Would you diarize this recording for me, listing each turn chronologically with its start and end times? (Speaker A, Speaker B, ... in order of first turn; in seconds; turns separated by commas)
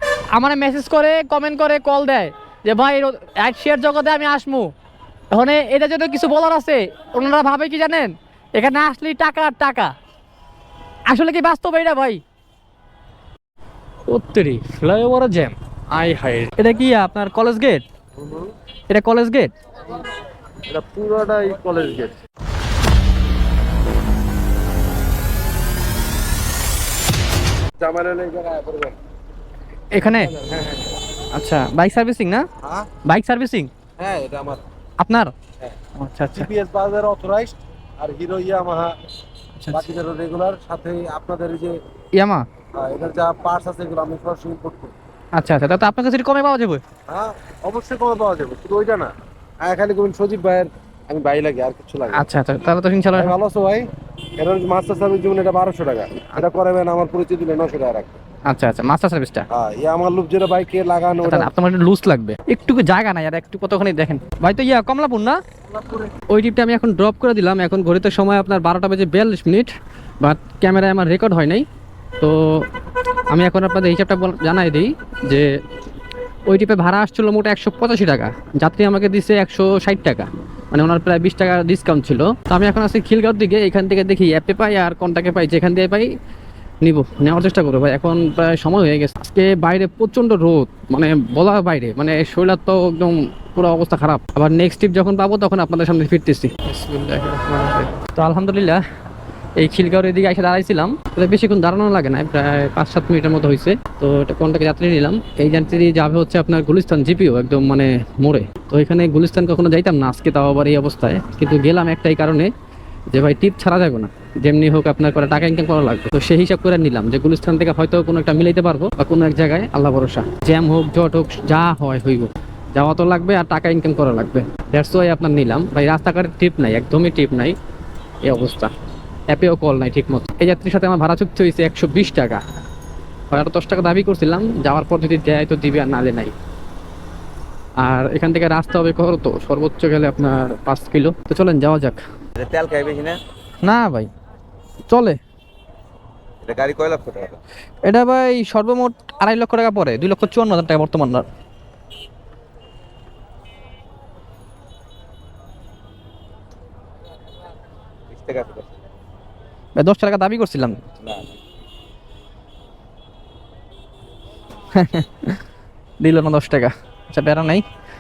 Speaker A: 0.3-4.7, Speaker A: 5.3-9.9, Speaker A: 11.1-12.2, Speaker A: 14.1-17.8, Speaker B: 18.2-18.5, Speaker A: 18.9-19.5, Speaker B: 20.7-22.1, Speaker B: 27.8-29.0, Speaker A: 29.9-30.3, Speaker B: 30.2-30.9, Speaker A: 31.3-32.5, Speaker B: 32.6-32.9, Speaker A: 33.0-33.7, Speaker B: 34.0-34.6, Speaker A: 35.0-35.3, Speaker A: 36.0-36.5, Speaker B: 36.3-39.0, Speaker A: 39.6-39.9, Speaker B: 39.7-41.8, Speaker A: 42.1-42.5, Speaker B: 42.8-44.9, Speaker A: 45.4-46.8, Speaker B: 47.1-52.3, Speaker A: 52.1-53.4, Speaker B: 53.1-53.9, Speaker B: 54.4-58.2, Speaker A: 58.5-59.5, Speaker B: 59.5-61.5, Speaker A: 61.2-65.4, Speaker A: 66.3-71.7, Speaker A: 72.2-72.7, Speaker A: 73.3-75.5, Speaker A: 76.5-86.1, Speaker A: 86.8-98.8, Speaker A: 99.6-112.5, Speaker A: 113.1-127.6, Speaker A: 128.2-128.7, Speaker A: 129.3-132.4, Speaker A: 133.3-136.3, Speaker A: 137.8-142.0, Speaker C: 142.4-143.2, Speaker A: 143.6-144.1, Speaker A: 144.9-145.2, Speaker C: 146.4-147.4, Speaker A: 147.8-151.3, Speaker C: 158.1-158.7, Speaker A: 159.8-160.8, Speaker C: 161.0-161.3, Speaker A: 164.7-165.4, Speaker A: 166.0-167.7